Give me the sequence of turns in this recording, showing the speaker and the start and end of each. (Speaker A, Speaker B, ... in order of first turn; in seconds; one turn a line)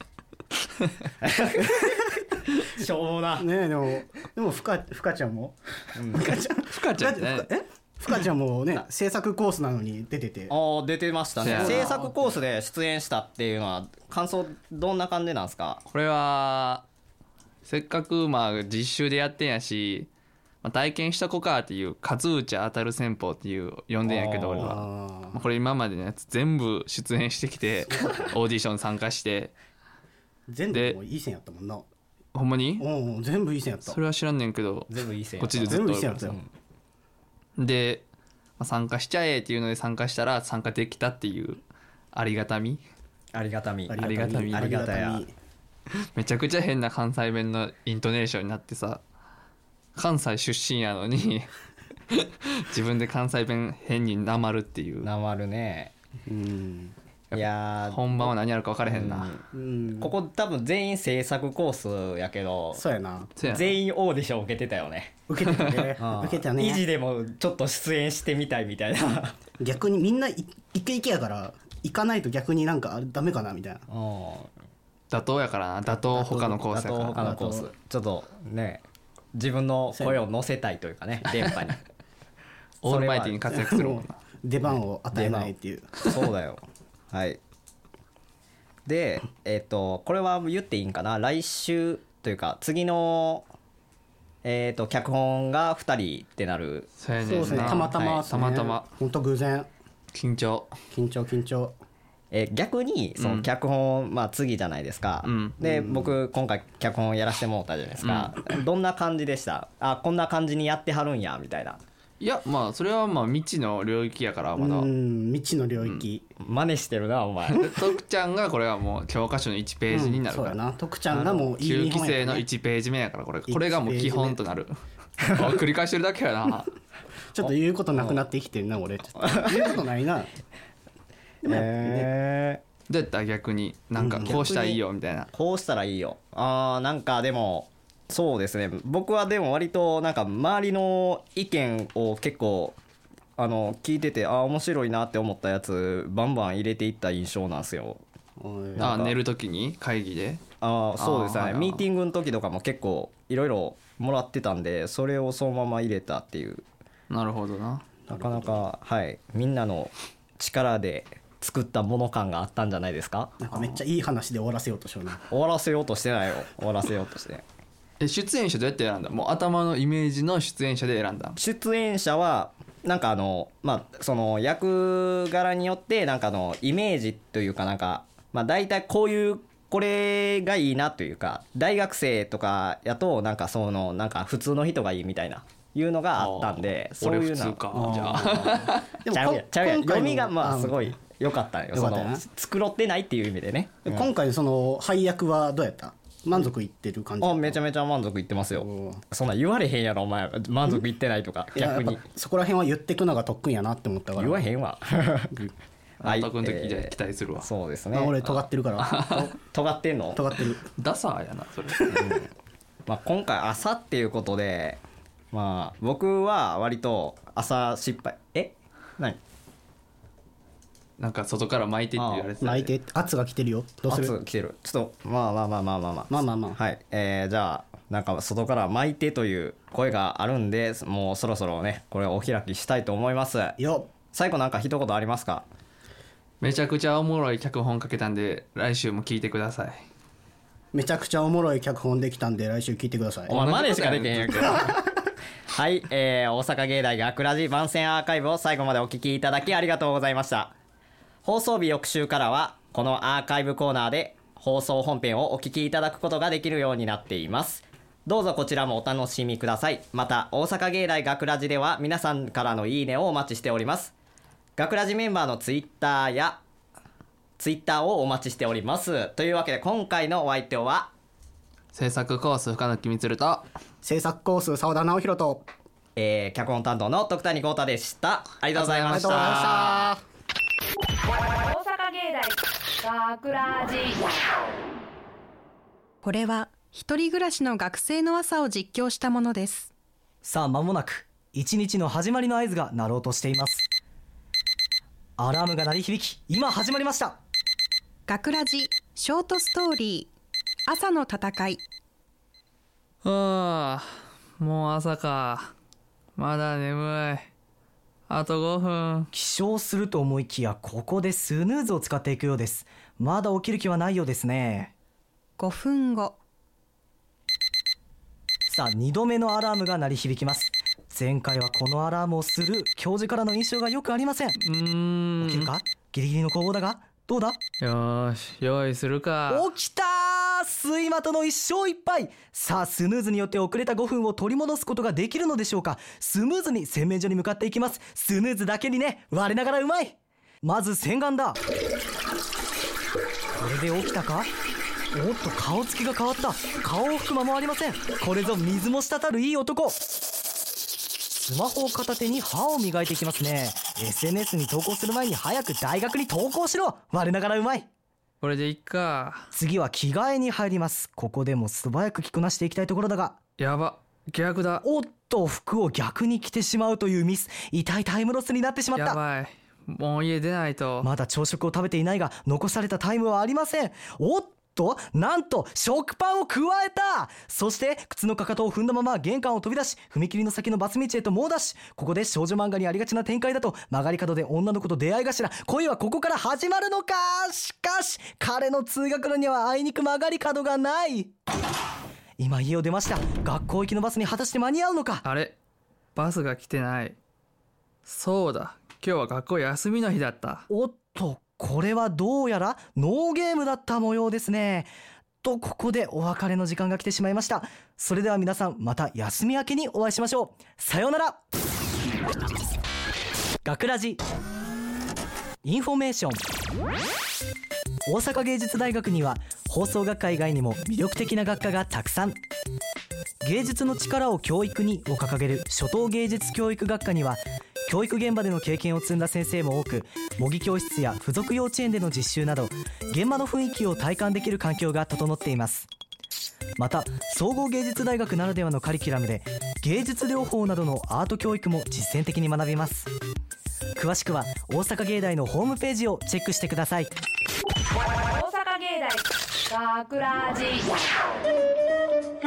Speaker A: 1.2-2.0
Speaker A: 2.6-3.5
Speaker B: 3.4-5.5
Speaker A: 6.0-6.3
Speaker B: 6.1-10.5
Speaker C: 6.7-7.5
Speaker A: 10.5-15.8
Speaker C: 11.4-12.1
Speaker B: 11.4-12.1
Speaker C: 15.9-16.8
Speaker C: 17.6-20.1
Speaker C: 20.6-29.5
Speaker A: 24.0-24.8
Speaker B: 24.7-25.4
Speaker B: 27.9-28.3
Speaker B: 30.5-31.9
Speaker C: 30.7-31.0
Speaker C: 32.3-32.9
Speaker B: 32.8-34.0
Speaker C: 33.9-36.3
Speaker A: 34.9-36.5
Speaker B: 35.6-36.4
Speaker C: 37.6-38.0
Speaker C: 38.6-41.6
Speaker C: 42.1-42.8
Speaker A: 43.3-44.0
Speaker B: 43.9-45.3
Speaker C: 44.0-44.7
Speaker A: 44.5-45.2
Speaker C: 46.1-49.0
Speaker C: 50.0-51.5
Speaker C: 52.1-55.1
Speaker A: 55.0-55.9
Speaker B: 56.3-56.9
Speaker C: 57.3-59.4
Speaker A: 57.3-58.3
Speaker A: 58.9-59.4
Speaker B: 59.5-60.1
Speaker A: 60.0-62.8
Speaker B: 62.7-63.3
Speaker C: 63.4-63.8
Speaker A: 63.4-65.2
Speaker B: 65.3-66.8
Speaker C: 65.4-65.9
Speaker A: 66.0-69.5
Speaker B: 69.6-73.8
Speaker A: 73.9-74.5
Speaker C: 75.1-77.3
Speaker A: 75.9-78.8
Speaker B: 77.2-77.7
Speaker A: 79.3-81.8
Speaker B: 79.9-80.2
Speaker C: 82.8-84.2
Speaker A: 82.8-83.4
Speaker B: 83.5-86.2
Speaker A: 85.1-87.4
Speaker A: 88.8-93.5
Speaker A: 94.4-98.2
Speaker C: 97.0-98.9
Speaker B: 97.2-99.7
Speaker C: 100.1-100.7
Speaker B: 100.9-101.7
Speaker A: 102.3-111.8
Speaker C: 103.2-103.5
Speaker C: 105.2-105.6
Speaker B: 105.6-106.2
Speaker C: 108.0-108.4
Speaker C: 112.2-114.9
Speaker B: 114.6-116.3
Speaker C: 115.8-116.0
Speaker A: 116.4-117.7
Speaker C: 117.5-120.6
Speaker B: 119.9-122.4
Speaker A: 121.1-121.5
Speaker C: 121.5-126.7
Speaker B: 123.5-124.4
Speaker B: 127.3-130.3
Speaker A: 127.4-128.2
Speaker A: 129.4-129.8
Speaker B: 131.4-132.1
Speaker A: 131.4-132.6
Speaker C: 132.9-135.3
Speaker B: 134.0-134.4
Speaker A: 134.3-134.8
Speaker A: 135.3-142.8
Speaker A: 143.4-148.0
Speaker B: 148.4-148.9
Speaker A: 148.7-149.2
Speaker C: 148.8-150.4
Speaker A: 150.6-156.6
Speaker C: 151.0-151.9
Speaker C: 157.1-157.8
Speaker B: 158.1-158.7
Speaker A: 158.1-163.3
Speaker B: 163.4-165.2
Speaker A: 165.3-167.4
Speaker C: 168.0-171.4
Speaker A: 171.4-187.7
Speaker C: 186.2-188.9
Speaker B: 187.7-191.0
Speaker A: 189.1-194.1
Speaker B: 191.7-192.2
Speaker B: 193.8-197.6
Speaker A: 197.2-202.0
Speaker B: 198.5-199.0
Speaker B: 201.5-204.4
Speaker A: 204.2-205.3
Speaker C: 206.0-207.5
Speaker A: 206.0-208.1
Speaker B: 207.9-209.4
Speaker C: 208.2-209.3
Speaker A: 209.4-210.2
Speaker B: 210.1-210.6
Speaker C: 210.7-212.1
Speaker B: 211.8-212.0
Speaker A: 211.9-212.2
Speaker A: 212.8-214.8
Speaker A: 215.3-219.2
Speaker C: 221.0-222.7
Speaker A: 221.9-222.3
Speaker B: 222.4-224.1
Speaker A: 223.9-235.4
Speaker B: 226.1-226.6
Speaker B: 233.6-234.0
Speaker C: 236.4-239.8
Speaker B: 240.7-243.4
Speaker C: 243.3-244.7
Speaker A: 243.3-244.8
Speaker A: 245.5-250.5
Speaker A: 251.2-263.9
Speaker A: 264.6-266.4
Speaker A: 267.4-270.9
Speaker C: 271.7-273.4
Speaker B: 273.8-275.4
Speaker A: 275.9-279.7
Speaker C: 278.5-279.9
Speaker B: 278.9-280.0
Speaker D: 281.4-284.0
Speaker E: 286.0-289.7
Speaker F: 290.2-293.7
Speaker F: 295.2-297.2
Speaker E: 298.1-300.1
Speaker E: 300.7-301.6
Speaker C: 303.0-303.9
Speaker C: 304.4-305.5
Speaker C: 306.1-307.3
Speaker C: 308.1-309.1
Speaker F: 309.1-314.7
Speaker E: 315.4-316.2
Speaker F: 318.5-324.4
Speaker C: 324.4-325.5
Speaker F: 325.2-327.4
Speaker C: 327.6-329.5
Speaker F: 329.3-341.4
Speaker F: 343.4-344.3
Speaker F: 344.9-349.8
Speaker F: 351.1-357.7
Speaker C: 358.2-359.3
Speaker F: 359.3-363.2
Speaker C: 363.4-364.6
Speaker F: 364.6-369.0
Speaker C: 368.7-370.9
Speaker F: 370.8-391.1
Speaker F: 392.2-395.0
Speaker C: 395.0-395.4
Speaker C: 395.9-397.0
Speaker C: 397.8-400.5
Speaker F: 400.5-404.7
Speaker F: 405.2-411.2
Speaker F: 413.4-414.0
Speaker F: 415.4-416.2
Speaker F: 417.9-422.1
Speaker F: 423.2-435.7
Speaker F: 436.6-442.9
Speaker F: 443.8-446.9
Speaker D: 448.1-450.7